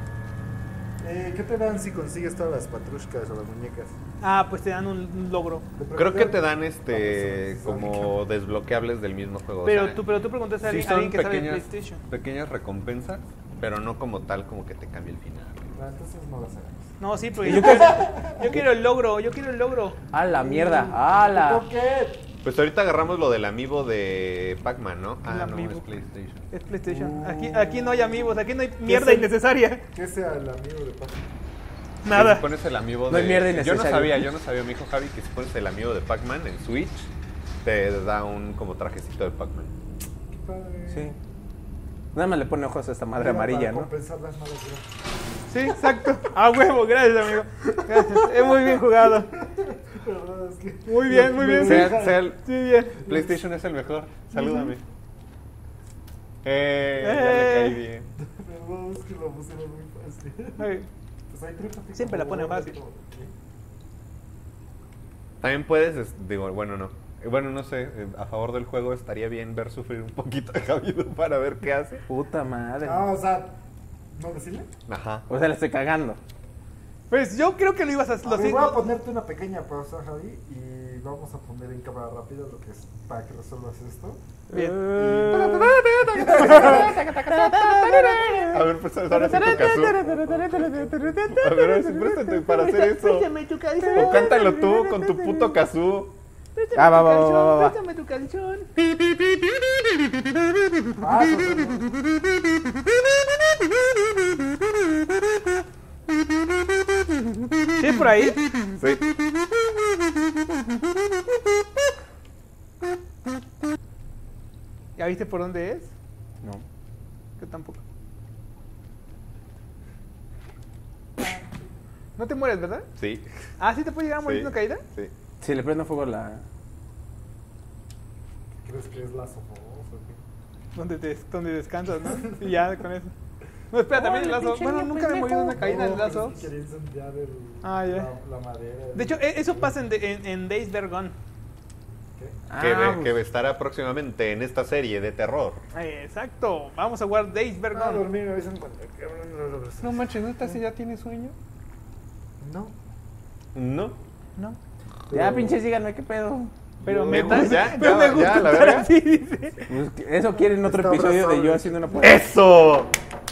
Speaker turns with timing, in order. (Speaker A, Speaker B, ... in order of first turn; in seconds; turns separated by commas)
Speaker A: 1.0-4.0, Speaker B: 4.2-5.7, Speaker A: 5.8-8.3, Speaker C: 5.9-15.7, Speaker B: 9.6-12.0, Speaker A: 15.7-18.5, Speaker B: 17.0-20.0, Speaker D: 17.4-18.7, Speaker D: 20.1-21.7, Speaker A: 20.2-22.3, Speaker C: 22.4-26.4, Speaker B: 25.2-25.9, Speaker B: 26.5-29.8, Speaker D: 26.9-28.3, Speaker A: 28.9-29.3, Speaker A: 29.9-31.3, Speaker B: 32.0-32.5, Speaker C: 32.1-37.1, Speaker D: 33.1-34.3, Speaker C: 37.6-39.7, Speaker A: 40.3-41.1, Speaker D: 40.9-41.2, Speaker D: 42.1-43.9, Speaker A: 43.2-44.9, Speaker B: 45.5-49.4, Speaker A: 48.0-48.8, Speaker A: 49.5-52.3, Speaker B: 50.9-53.1, Speaker C: 51.6-54.8, Speaker B: 54.3-54.7, Speaker C: 56.4-58.1, Speaker B: 57.0-57.8, Speaker A: 58.2-60.7, Speaker B: 60.6-60.9, Speaker A: 61.3-63.3, Speaker B: 61.9-62.8, Speaker C: 65.4-72.0, Speaker D: 72.1-73.1, Speaker A: 72.8-73.6, Speaker A: 74.1-74.7, Speaker C: 74.9-75.2, Speaker D: 75.3-76.2, Speaker B: 77.1-78.8, Speaker A: 78.2-84.2, Speaker D: 84.5-85.8, Speaker B: 84.5-84.9, Speaker C: 85.0-90.0, Speaker A: 86.1-87.0, Speaker B: 86.4-86.8, Speaker D: 86.8-92.4, Speaker B: 87.4-88.6, Speaker A: 89.3-91.3, Speaker C: 91.2-93.3, Speaker B: 92.3-95.6, Speaker D: 93.8-94.3, Speaker C: 93.9-96.2, Speaker B: 96.5-98.7, Speaker D: 96.8-97.8, Speaker A: 101.0-101.9, Speaker B: 107.8-108.4, Speaker C: 108.8-109.0, Speaker B: 115.0-115.9, Speaker B: 117.4-117.8, Speaker B: 122.2-122.9, Speaker C: 123.0-123.3, Speaker B: 123.6-124.8, Speaker C: 124.2-125.1, Speaker D: 125.4-126.4, Speaker A: 128.6-130.2, Speaker B: 130.8-133.1, Speaker B: 133.7-136.4, Speaker D: 133.9-135.6, Speaker A: 135.5-139.8, Speaker B: 137.6-138.1, Speaker B: 138.9-141.1, Speaker D: 142.5-143.2, Speaker C: 142.6-145.6, Speaker B: 145.7-148.1, Speaker A: 147.7-150.6, Speaker C: 149.8-151.3, Speaker A: 152.4-152.8, Speaker C: 153.6-154.0, Speaker A: 155.1-155.6, Speaker D: 155.1-156.5, Speaker C: 156.8-158.9, Speaker B: 156.8-159.7, Speaker A: 157.1-157.4, Speaker D: 159.7-162.2, Speaker A: 160.5-162.3, Speaker C: 162.0-162.9